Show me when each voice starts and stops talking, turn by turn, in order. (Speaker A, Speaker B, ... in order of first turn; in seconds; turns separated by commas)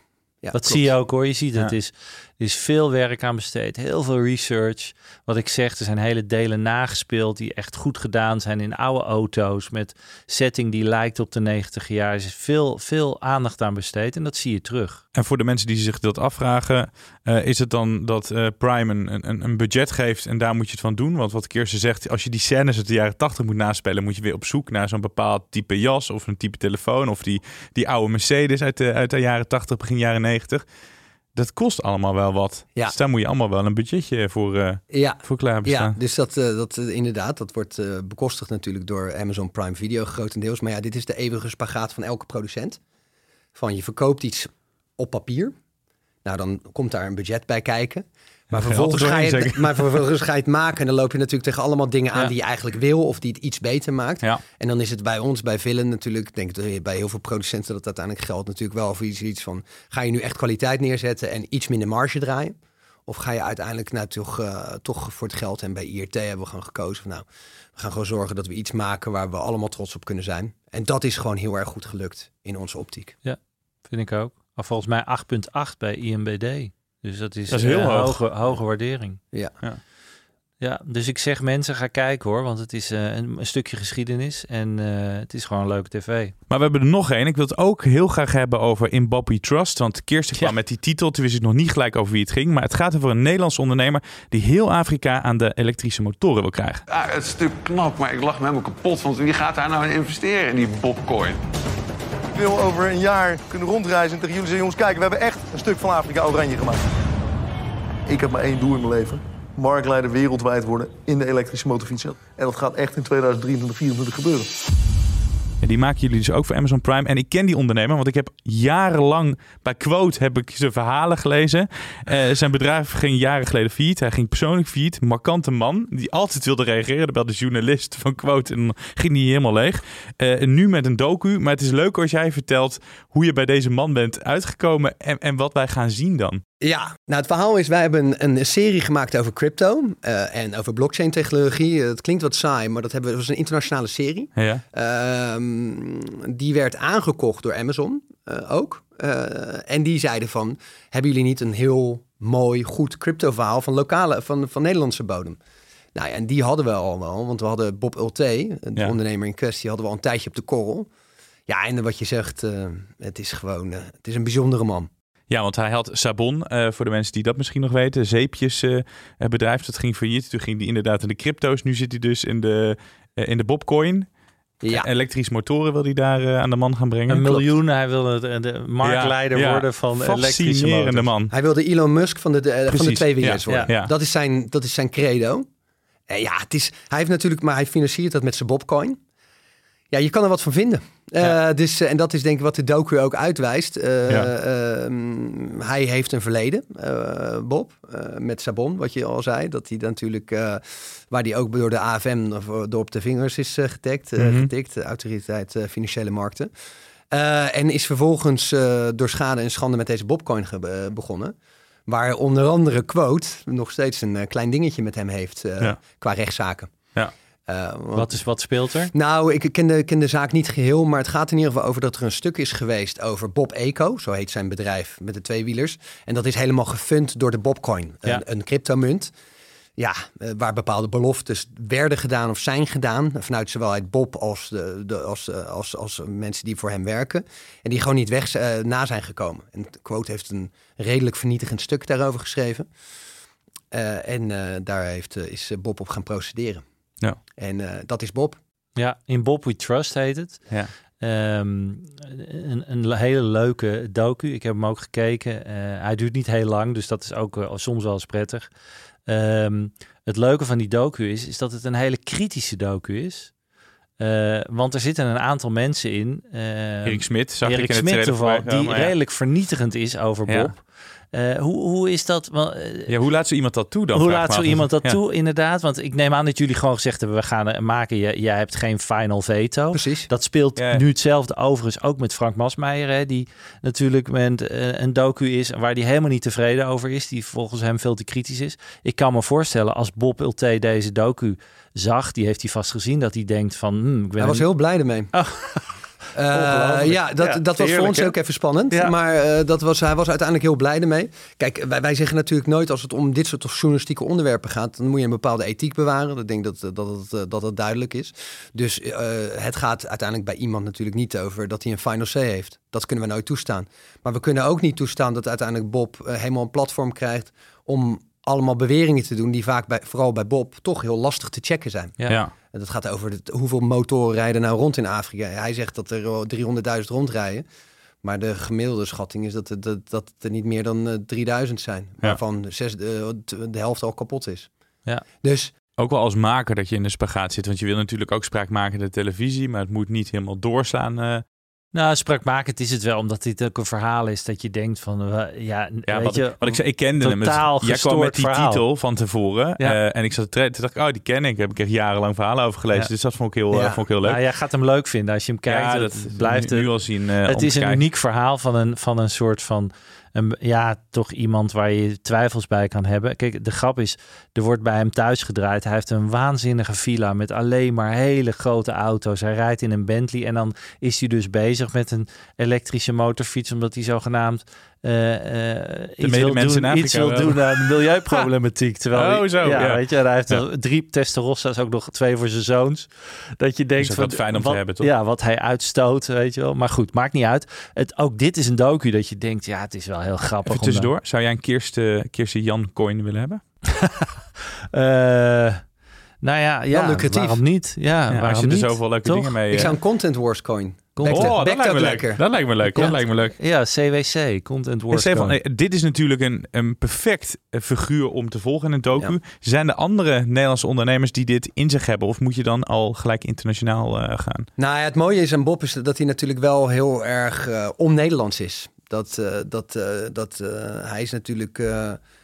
Speaker A: 0.4-0.9, Speaker B: 0.5-15.0, Speaker C: 15.1-30.6, Speaker C: 31.4-35.9, Speaker A: 34.9-42.8, Speaker A: 43.5-45.5, Speaker A: 46.2-73.1, Speaker C: 48.5-49.9, Speaker B: 73.2-79.2, Speaker C: 77.5-78.2, Speaker B: 80.6-86.3, Speaker C: 86.5-96.8, Speaker D: 96.9-101.4, Speaker E: 102.3-106.9, Speaker E: 108.1-114.5, Speaker C: 115.6-136.4, Speaker A: 136.6-155.4, Speaker C: 144.4-144.6, Speaker A: 155.9-160.9, Speaker A: 161.5-164.9, Speaker C: 165.3-174.1, Speaker A: 174.6-174.9, Speaker C: 174.6-177.4, Speaker B: 177.1-181.1, Speaker C: 178.8-181.3, Speaker A: 181.3-185.5, Speaker C: 182.7-183.9, Speaker A: 186.1-189.0, Speaker A: 189.9-206.5, Speaker C: 204.2-204.5, Speaker A: 207.1-211.3, Speaker A: 211.9-216.7, Speaker A: 217.5-218.2, Speaker B: 217.9-218.9, Speaker A: 218.9-229.1, Speaker A: 229.8-242.7, Speaker A: 243.7-246.6, Speaker A: 247.4-248.4, Speaker B: 248.8-250.5, Speaker B: 251.0-258.5, Speaker B: 259.1-263.3, Speaker B: 264.0-272.9, Speaker C: 266.9-268.9, Speaker C: 270.2-270.5, Speaker C: 272.9-275.0, Speaker B: 273.9-294.4, Speaker A: 279.7-280.1, Speaker C: 280.6-280.8, Speaker A: 294.2-295.1, Speaker B: 295.1-295.7, Speaker A: 296.1-321.9, Speaker B: 296.3-298.1, Speaker A: 322.5-327.4, Speaker A: 328.0-334.5, Speaker A: 335.2-335.5, Speaker C: 335.8-341.2, Speaker B: 341.7-348.6, Speaker C: 345.9-354.2, Speaker A: 353.5-353.8, Speaker B: 354.0-356.7, Speaker C: 355.5-357.8, Speaker B: 357.2-390.9, Speaker C: 376.0-378.3, Speaker C: 378.9-380.4, Speaker C: 383.8-384.9, Speaker C: 390.5-393.4, Speaker B: 393.8-394.1, Speaker B: 394.7-395.6, Speaker B: 396.2-399.7, Speaker A: 396.7-397.4, Speaker C: 398.1-399.7, Speaker A: 399.5-402.2, Speaker B: 400.9-401.4, Speaker C: 401.1-403.4, Speaker B: 402.6-405.4, Speaker C: 404.9-414.5, Speaker A: 414.6-422.0